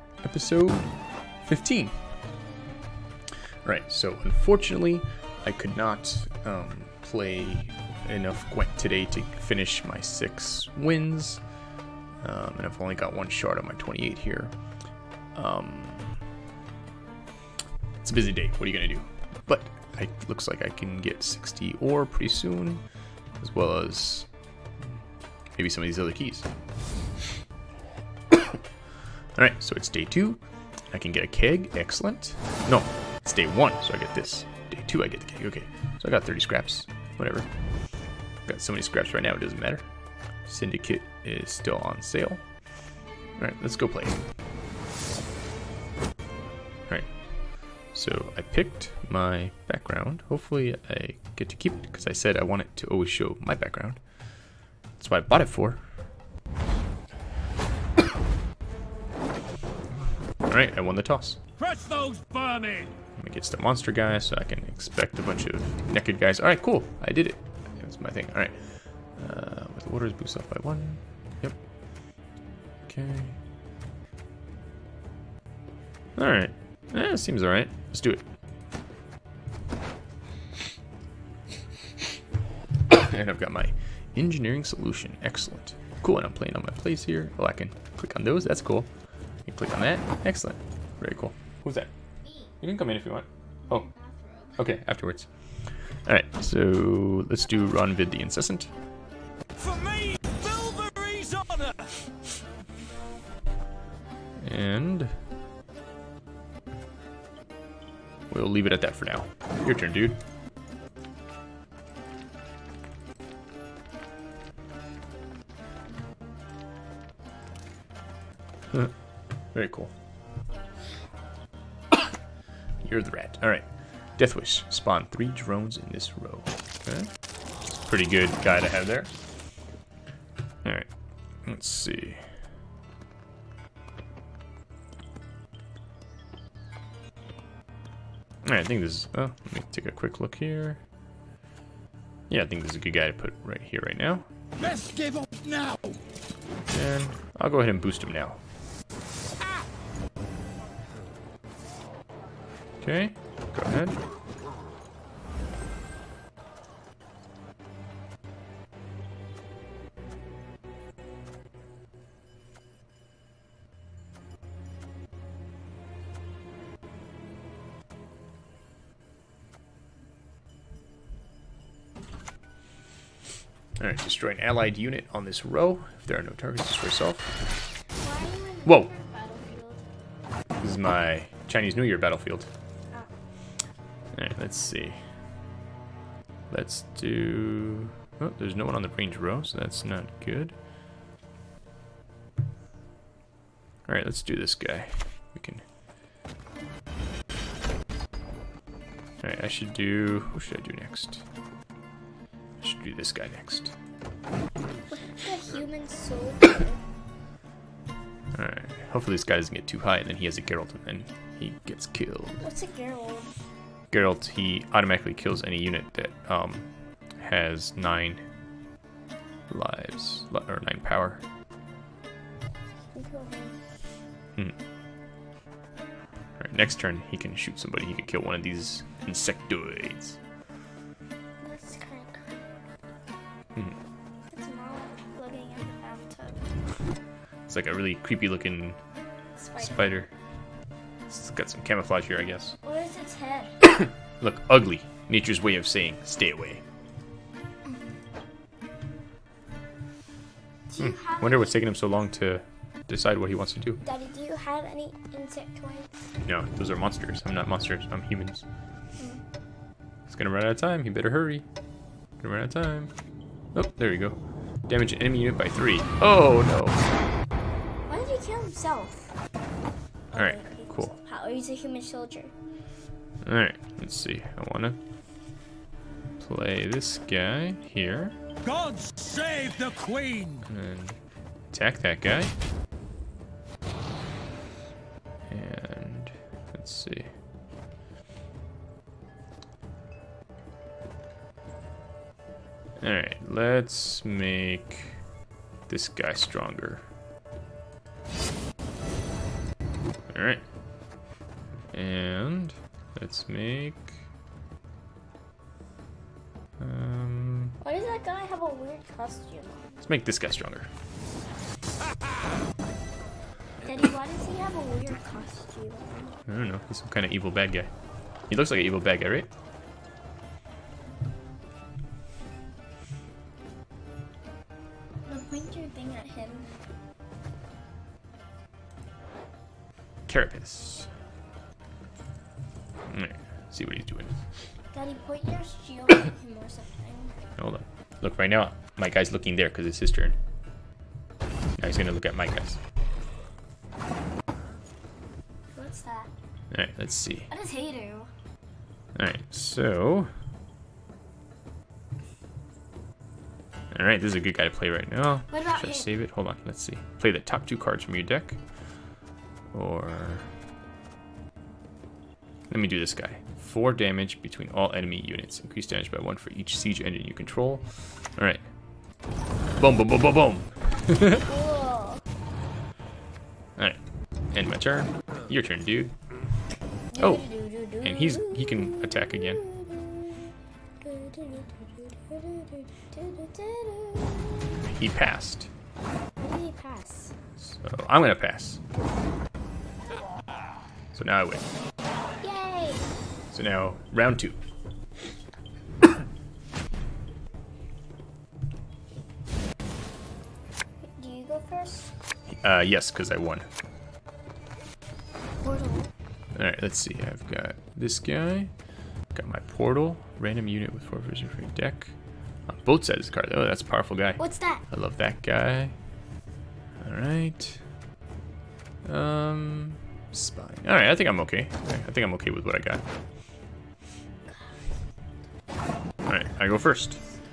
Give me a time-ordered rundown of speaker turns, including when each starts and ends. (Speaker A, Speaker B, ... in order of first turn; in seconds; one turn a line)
Speaker A: 0.2-1.9
Speaker A: 3.6-11.4
Speaker A: 12.2-14.5
Speaker A: 15.3-16.2
Speaker A: 18.0-22.8
Speaker A: 23.4-24.3
Speaker A: 25.5-26.5
Speaker A: 29.4-30.4
Speaker A: 30.9-37.5
Speaker A: 38.5-39.9
Speaker A: 40.5-42.4
Speaker A: 43.4-44.2
Speaker A: 47.9-54.0
Speaker A: 55.0-55.8
Speaker A: 60.4-61.4
Speaker B: 61.6-62.9
Speaker A: 63.1-68.5
Speaker A: 69.2-71.6
Speaker A: 72.8-73.4
Speaker A: 76.2-78.2
Speaker A: 82.9-88.9
Speaker A: 89.5-91.9
Speaker A: 92.6-93.8
Speaker C: 93.6-94.6
Speaker A: 94.5-95.3
Speaker A: 95.9-98.7
Speaker B: 99.6-101.9
Speaker A: 104.4-105.2
Speaker A: 108.3-110.2
Speaker A: 119.5-119.9
Speaker A: 122.8-123.7
Speaker A: 124.2-127.1
Speaker A: 127.8-129.1
Speaker A: 131.4-132.3
Speaker A: 138.4-140.8
Speaker A: 142.3-144.3
Speaker B: 144.6-145.9
Speaker A: 146.7-148.4
Speaker A: 152.8-154.0
Speaker A: 173.8-177.3
Speaker C: 178.0-179.8
Speaker A: 180.6-182.5
Speaker A: 184.1-185.0
Speaker A: 186.5-190.5
Speaker A: 193.9-195.6
Speaker A: 199.2-201.2
Speaker A: 202.6-203.7
Speaker C: 204.9-206.8
Speaker A: 208.3-212.4
Speaker C: 212.4-213.3
Speaker A: 213.9-216.7
Speaker A: 217.2-218.2
Speaker A: 219.5-221.2
Speaker C: 222.9-223.6
Speaker A: 226.4-230.2
Speaker C: 231.4-232.3
Speaker C: 234.3-236.5
Speaker A: 237.5-238.8
Speaker C: 239.4-239.9
Speaker A: 239.6-240.1
Speaker A: 241.1-242.6
Speaker C: 242.6-243.6
Speaker A: 244.2-246.6
Speaker C: 250.7-251.6
Speaker A: 250.8-253.8
Speaker C: 253.8-256.0
Speaker A: 256.2-258.4
Speaker A: 260.1-261.4
Speaker A: 262.2-262.9
Speaker A: 263.5-264.2
Speaker A: 264.7-266.9
Speaker C: 267.9-269.2
Speaker C: 270.1-272.3
Speaker A: 270.1-270.9
Speaker A: 273.2-274.8
Speaker A: 276.2-278.1
Speaker B: 278.4-280.4
Speaker A: 280.4-281.0
Speaker A: 281.5-282.3
Speaker A: 285.3-287.1
Speaker A: 292.8-295.0
Speaker A: 295.7-296.8
Speaker A: 300.1-300.4
Speaker A: 301.7-303.9
Speaker A: 306.6-307.6
Speaker C: 307.6-309.8
Speaker A: 309.8-310.7
Speaker C: 313.6-316.2
Speaker A: 316.2-317.7
Speaker A: 318.3-319.3
Speaker C: 325.1-326.5
Speaker A: 330.1-330.9
Speaker A: 332.9-334.2
Speaker C: 334.7-337.1
Speaker A: 337.4-340.1
Speaker A: 341.6-342.6
Speaker C: 345.5-346.1
Speaker A: 346.5-347.3
Speaker C: 347.3-348.1
Speaker A: 348.9-350.1
Speaker A: 353.7-358.4
Speaker C: 355.3-355.9
Speaker A: 359.5-360.3
Speaker A: 362.5-367.6
Speaker A: 368.2-368.4
Speaker A: 369.6-371.2
Speaker C: 371.2-372.0
Speaker A: 374.3-375.9
Speaker C: 376.9-384.6
Speaker A: 377.0-377.2
Speaker A: 377.8-379.4
Speaker A: 384.6-385.5
Speaker C: 386.2-387.1
Speaker A: 387.4-388.6
Speaker A: 390.9-391.5
Speaker C: 392.2-392.9
Speaker A: 393.3-394.4
Speaker C: 400.8-401.9
Speaker A: 402.3-403.5
Speaker C: 405.4-405.9
Speaker A: 406.3-408.5
Speaker A: 409.1-411.9
Speaker A: 412.5-415.7
Speaker C: 414.2-414.6
Speaker A: 416.8-417.6
Speaker A: 418.8-422.8
Speaker C: 424.3-424.8
Speaker A: 426.1-427.0